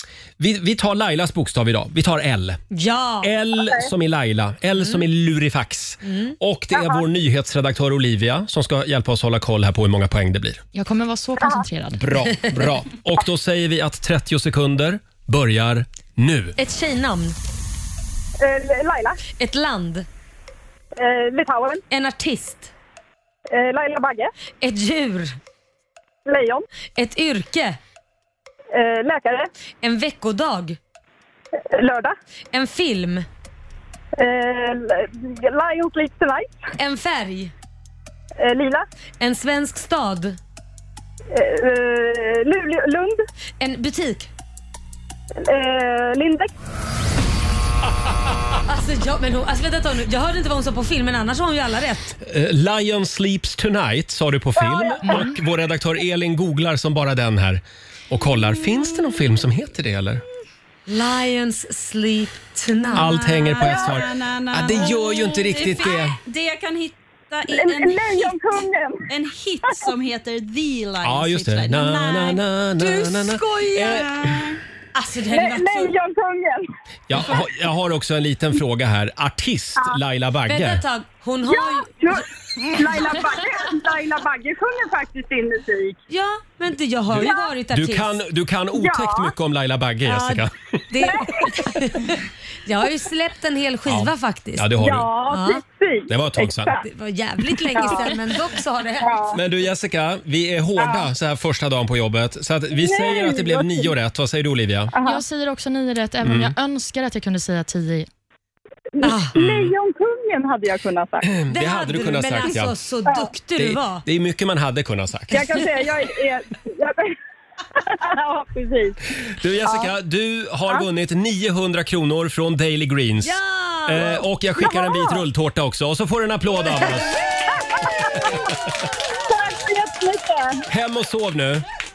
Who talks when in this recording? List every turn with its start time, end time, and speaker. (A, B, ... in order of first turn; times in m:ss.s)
0:00.4-0:02.6 A
0:02.7-0:03.3 B
0:03.2-0:10.6 A
0:06.0-0:06.3 B
0:06.7-0:07.0 C
0:10.7-0:12.0 D
0:11.4-0:11.6 C
0:11.9-0:16.6 A
0:16.6-0:17.4 B
0:18.4-0:19.2 C
0:19.3-0:20.0 B
0:20.9-0:21.8 C
0:21.9-0:22.7 B
0:23.5-0:24.3 C
0:24.6-0:25.4 B
0:26.2-0:26.6 C
0:27.0-0:27.8 B
0:28.7-0:29.5 C
0:29.8-0:30.8 B
0:31.5-0:32.1 C
0:32.5-0:33.2 B
0:34.2-0:36.6 C
0:36.8-0:37.5 B
0:38.4-0:38.8 C
0:39.2-0:40.4 B
0:41.3-0:43.2 C
0:43.6-0:44.3 B
0:45.4-0:46.5 C
0:48.7-0:52.1 B
0:52.2-1:00.2 A
0:54.7-0:55.0 C
1:00.9-1:03.1 B
1:02.9-1:06.2 A
1:02.9-1:08.6 E
1:07.5-1:09.0 C
1:09.1-1:12.4 E
1:11.0-1:14.4 A
1:12.8-1:14.0 B
1:13.7-1:14.6 E
1:14.9-1:15.9 B
1:15.3-1:16.7 C
1:17.1-1:20.8 A
1:20.5-1:21.9 B
1:21.5-1:26.0 C
1:26.1-1:28.2 B
1:27.1-1:30.8 A
1:27.2-1:27.5 C
1:28.8-1:29.3 C
1:30.0-1:34.7 B
1:31.0-1:31.5 C
1:33.8-1:35.1 A
1:34.8-1:36.8 C
1:35.3-1:35.6 B
1:36.1-1:36.8 A
1:36.8-1:39.4 B
1:37.7-1:38.0 C
1:39.0-1:39.4 C
1:39.3-1:44.9 A
1:40.8-1:41.1 C
1:42.7-1:43.9 C
1:44.9-1:45.2 C
1:45.0-1:48.1 D
1:46.2-1:46.5 A
1:49.0-1:51.3 C
1:49.0-1:49.3 B
1:49.4-1:49.7 A
1:51.2-1:52.7 A
1:51.5-1:54.0 B
1:53.6-1:55.7 A
1:55.3-1:57.1 C
1:57.8-1:59.0 C
1:59.3-2:07.2 A
2:03.2-2:04.2 B
2:04.6-2:05.1 C
2:07.4-2:08.6 C
2:07.8-2:08.4 A
2:09.2-2:10.6 C
2:10.7-2:11.6 A